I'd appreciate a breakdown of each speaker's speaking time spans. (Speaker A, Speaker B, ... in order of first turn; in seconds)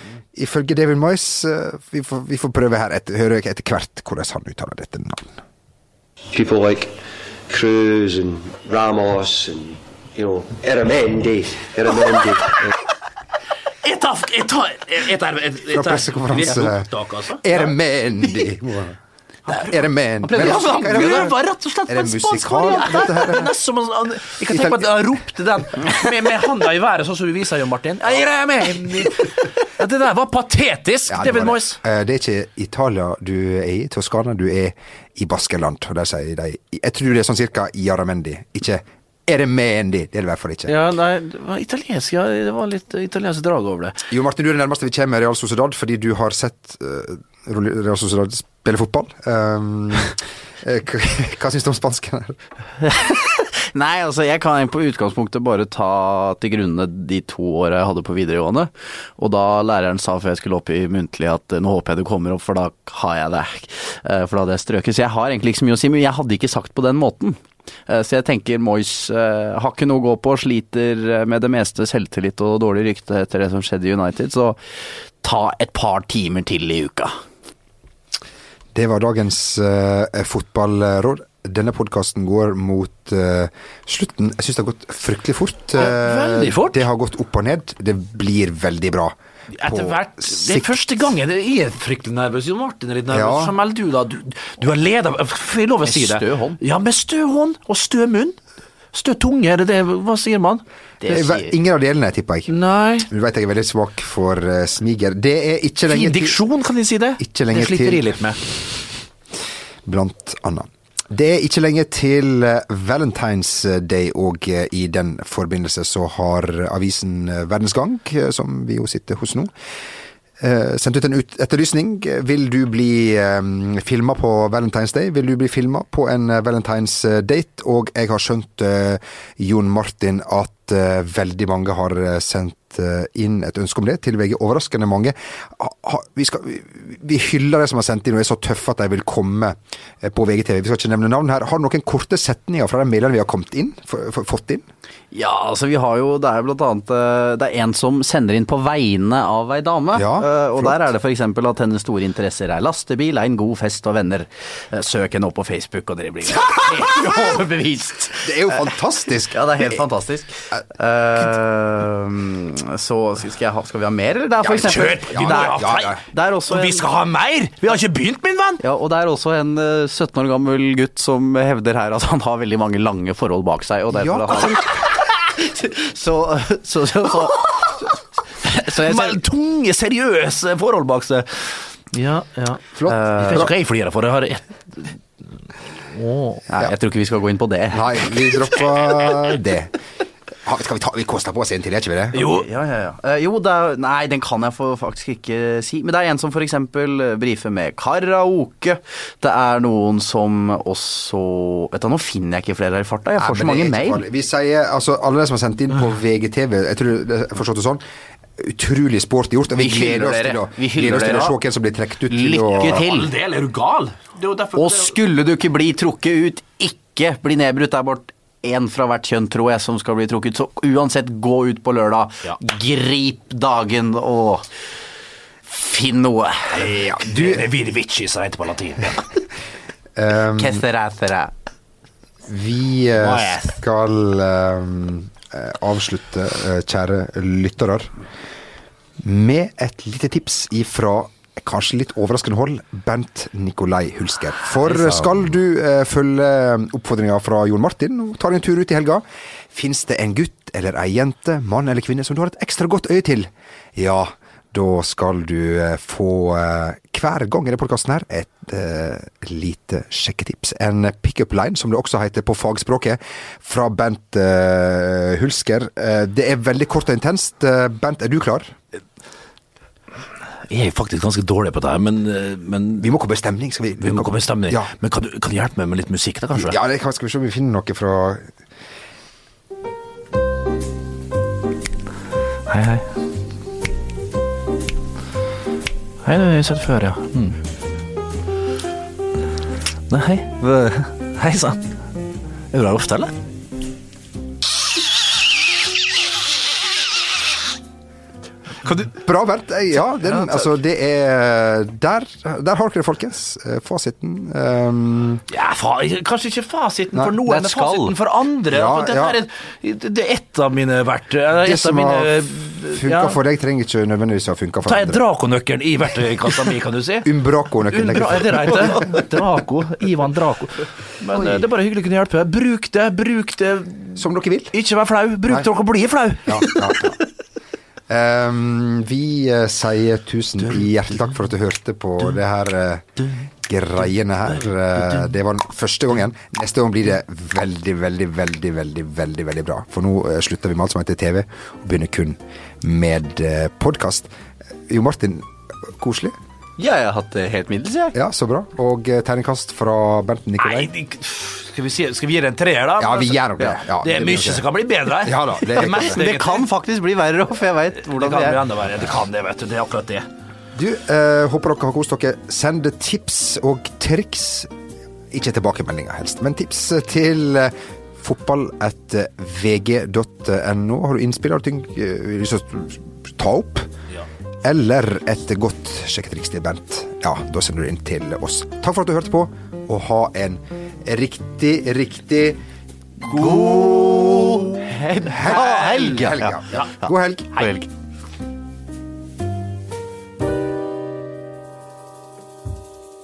Speaker A: 0.3-5.4, 15.7-16.9, 17.4-21.4, 21.9-23.5, 24.5-25.0, 31.1-40.7, 44.1-52.4, 78.7-90.8, 93.1-93.5, 101.0-102.5, 103.0-106.4, 107.2-108.2, 109.8-119.5, 120.4-144.7, 149.9-150.9, 158.2-159.8, 164.4-166.0, 173.9-174.8, 182.8-183.5, 187.7-189.7, 190.4-192.2, 203.2-207.8, 208.4-212.8, 226.6-227.4, 229.9-230.6, 232.2-237.9, 239.0-268.5, 272.8-274.7, 276.3-278.3, 298.8-305.2, 308.5-309.2, 311.4-315.0, 317.0-319.0, 321.1-321.5, 324.0-324.5, 326.2-327.0, 327.9-344.1, 344.7-346.1, 347.9-350.7, 352.8-356.1, 360.5-364.5, 365.1-373.7, 374.4-382.4, 385.1-387.4
Speaker B: 6.3-12.7
Speaker C: 13.8-17.6, 19.5-31.8, 40.7-44.0, 85.8-86.8, 89.5-98.4, 98.9-100.6, 102.5-103.1, 105.9-108.4, 164.6-168.6, 178.8-182.7, 183.2-185.0, 185.9-186.4, 192.1-192.4, 212.6-214.9, 226.8-229.1, 233.0-233.5, 270.5-272.9, 273.8-276.6, 282.5-282.9, 286.0-287.4, 289.9-291.6, 292.5-293.1, 305.3-313.2, 314.6-317.1, 317.7-326.9, 334.8-335.1, 350.4-356.5, 357.8-360.1, 383.1-384.3, 385.3-385.9
Speaker D: 20.3-20.9, 53.7-77.2, 95.8-96.6, 101.0-101.5, 145.1-158.8, 159.3-166.8, 168.6-174.7, 175.3-177.7, 178.4-179.2, 182.9-183.5, 186.5-188.0, 192.1-204.0, 209.6-211.3, 212.1-213.1, 214.6-224.4, 225.5-226.6, 230.4-231.3, 307.2-307.9, 346.6-348.0, 355.6-358.4, 383.1-387.7